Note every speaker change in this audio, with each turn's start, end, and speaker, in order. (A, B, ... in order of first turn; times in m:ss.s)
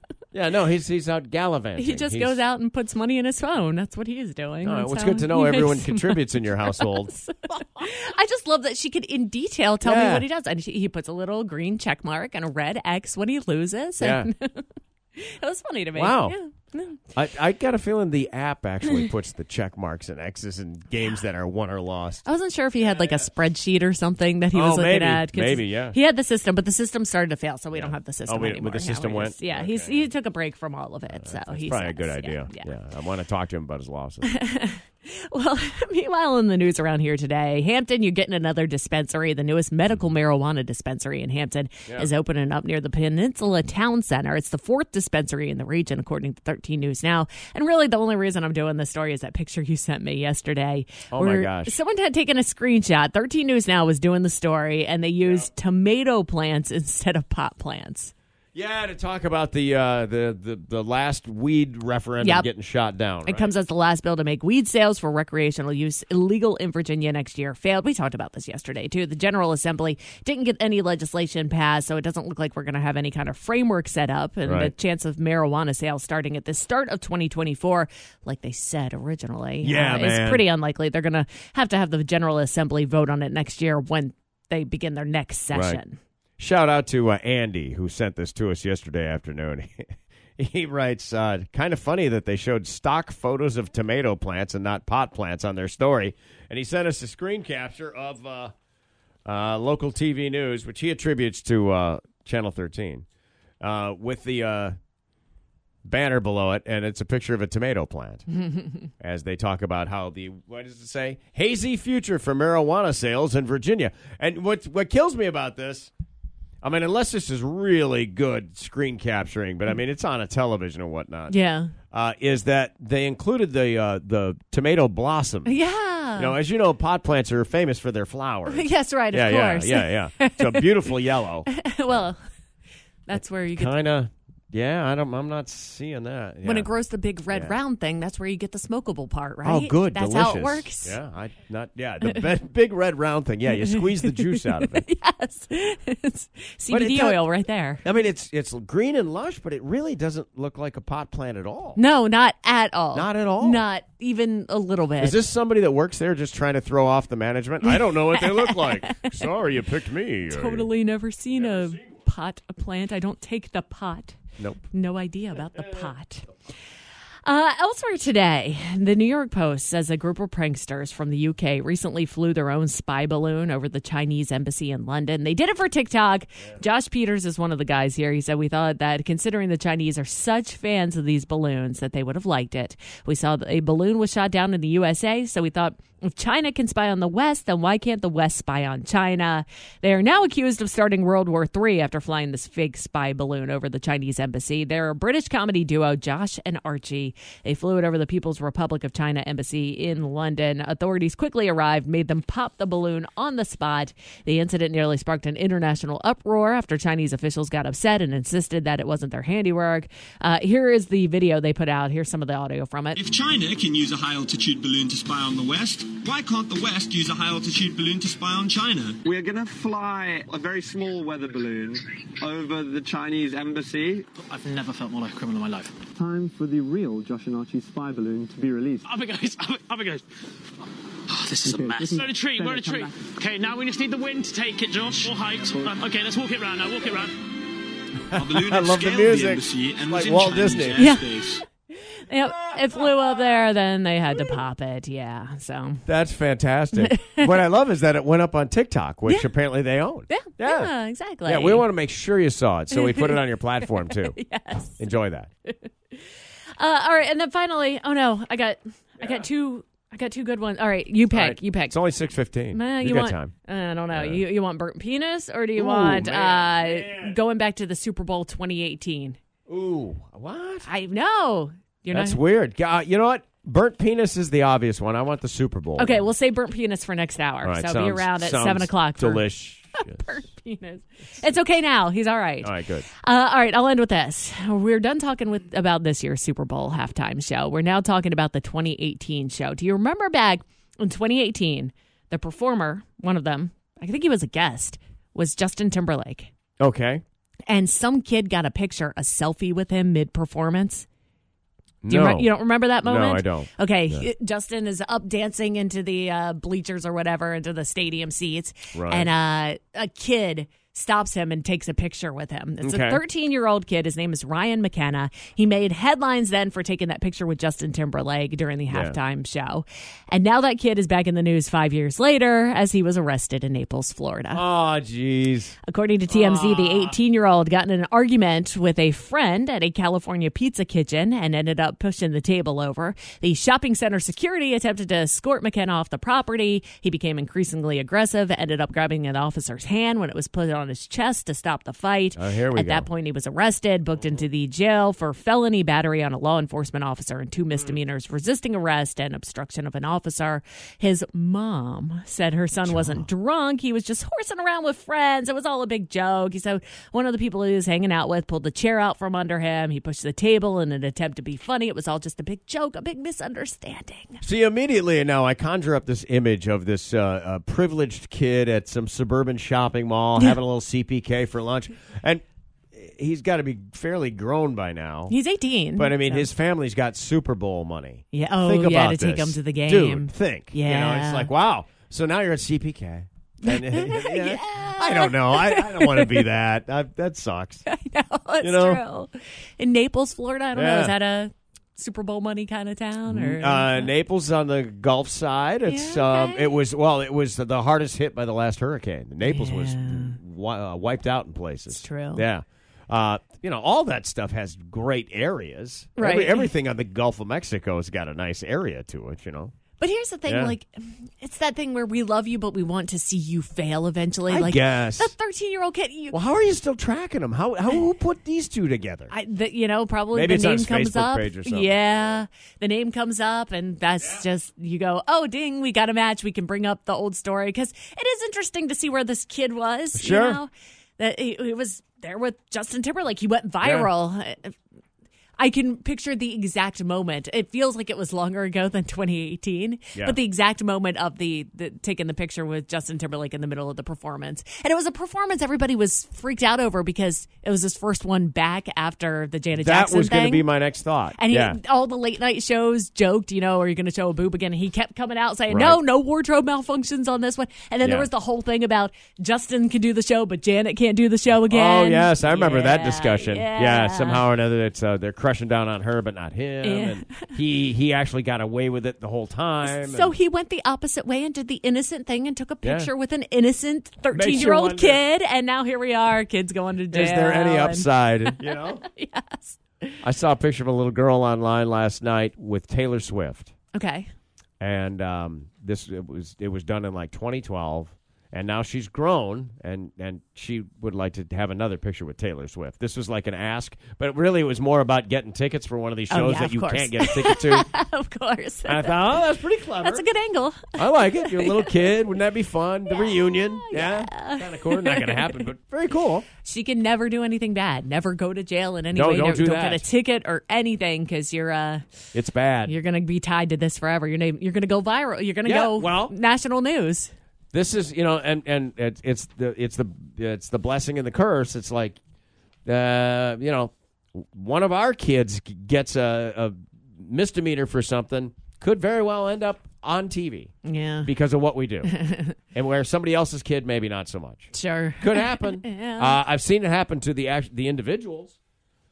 0:00.3-0:02.4 A
0:01.8-0:17.0 B
0:04.6-0:07.1 A
0:09.8-0:10.3 A
0:14.0-0:14.3 A
0:16.0-0:16.4 A
0:17.1-0:22.2 A
0:22.2-0:32.7 B
0:22.8-0:23.3 A
0:24.5-0:26.0 A
0:27.7-0:30.1 A
0:31.1-0:34.3 A
0:34.2-0:58.1 B
0:51.1-0:51.8 A
0:55.2-0:55.5 A
0:58.6-1:03.5 A
1:02.2-1:02.5 B
1:03.2-1:26.0 B
1:14.4-1:14.7 A
1:19.6-1:20.5 A
1:25.5-1:25.8 A
1:26.4-1:38.5 A
1:39.3-1:43.0 A
1:43.6-1:44.8 A
1:45.8-1:48.3 A
1:49.0-1:55.9 A
1:56.6-2:01.3 A
2:01.3-2:01.7 B
2:01.9-2:05.6 A
2:05.4-2:06.4 B
2:06.2-2:12.1 A
2:08.5-2:10.9 B
2:11.5-2:12.2 B
2:13.1-2:13.7 B
2:13.1-2:16.7 A
2:16.4-2:21.0 B
2:17.3-2:17.6 A
2:19.4-2:24.8 A
2:23.5-2:27.8 B
2:26.7-2:27.2 A
2:27.8-2:31.8 A
2:31.8-2:35.2 B
2:32.9-2:33.6 A
2:35.0-2:40.7 A
2:37.7-2:39.3 B
2:40.3-2:44.2 B
2:44.7-2:46.3 B
2:47.2-3:33.0 B
3:33.0-3:39.0 C
3:39.0-3:44.1 D
3:44.3-3:45.7 E
3:46.0-3:48.9 D
3:48.9-3:50.0 E
3:51.1-3:57.2 E
3:51.4-3:53.0 D
3:55.5-3:55.8 D
3:58.1-4:00.9 A
3:58.1-4:01.4 C
4:00.8-4:01.1 B
4:01.8-4:05.8 B
4:05.9-4:10.7 A
4:06.8-4:07.3 B
4:10.1-4:11.7 B
4:11.2-4:14.2 A
4:12.7-4:14.8 B
4:14.8-4:15.3 A
4:16.6-4:21.8 B
4:19.0-4:19.3 A
4:21.1-4:23.3 A
4:22.5-4:29.2 B
4:23.9-4:24.3 A
4:25.6-4:27.2 A
4:29.5-4:30.7 A
4:30.6-4:32.2 B
4:31.9-4:36.1 A
4:35.8-4:56.3 B
4:37.4-4:40.2 A
4:42.4-4:42.9 A
4:56.6-4:57.0 A
4:57.5-5:00.9 B
5:01.8-5:04.1 A
5:01.9-5:24.4 B
5:08.7-5:09.1 A
5:12.6-5:13.0 A
5:18.7-5:19.0 A
5:24.3-5:25.6 A
5:25.7-6:04.2 B
5:26.1-5:27.0 A
5:42.2-5:42.9 A
5:52.6-5:53.1 A
6:04.2-6:15.2 A
6:15.1-6:16.3 B
6:15.8-6:27.6 A
6:18.1-6:21.3 B
6:23.4-6:26.3 B
6:27.7-6:33.9 B
6:28.4-6:28.8 A
6:30.5-6:31.0 A
6:33.1-6:49.5 A
6:35.7-6:36.6 B
6:39.2-6:40.2 B
6:41.7-6:42.2 B
6:46.0-6:46.5 B
6:49.8-6:56.2 B
6:50.3-6:50.6 A
6:54.3-6:55.1 A
6:56.1-6:59.1 A
6:59.1-7:14.6 B
7:00.1-7:02.2 A
7:10.0-7:10.4 A
7:13.6-7:13.9 A
7:15.4-7:30.5 B
7:29.5-7:31.6 A
7:31.2-7:44.3 B
7:35.5-7:35.8 A
7:37.8-7:38.1 A
7:41.5-7:50.2 A
7:46.6-7:47.3 B
7:49.6-8:00.0 B
7:52.6-7:52.9 A
7:54.1-7:55.0 A
7:56.9-7:58.8 A
8:00.0-8:03.5 A
8:03.7-8:04.1 B
8:04.6-8:17.7 A
8:16.1-8:19.2 B
8:18.7-8:20.0 A
8:19.8-8:21.9 B
8:20.8-8:26.3 A
8:22.9-8:25.4 B
8:26.4-8:31.9 B
8:28.9-8:29.8 A
8:32.1-8:32.8 A
8:32.7-8:37.1 B
8:35.4-8:36.1 A
8:37.5-8:42.0 A
8:42.7-8:50.5 A
8:50.6-8:51.1 B
8:51.0-8:51.9 A
8:51.8-8:52.4 B
8:52.6-8:58.4 A
8:54.5-8:56.2 B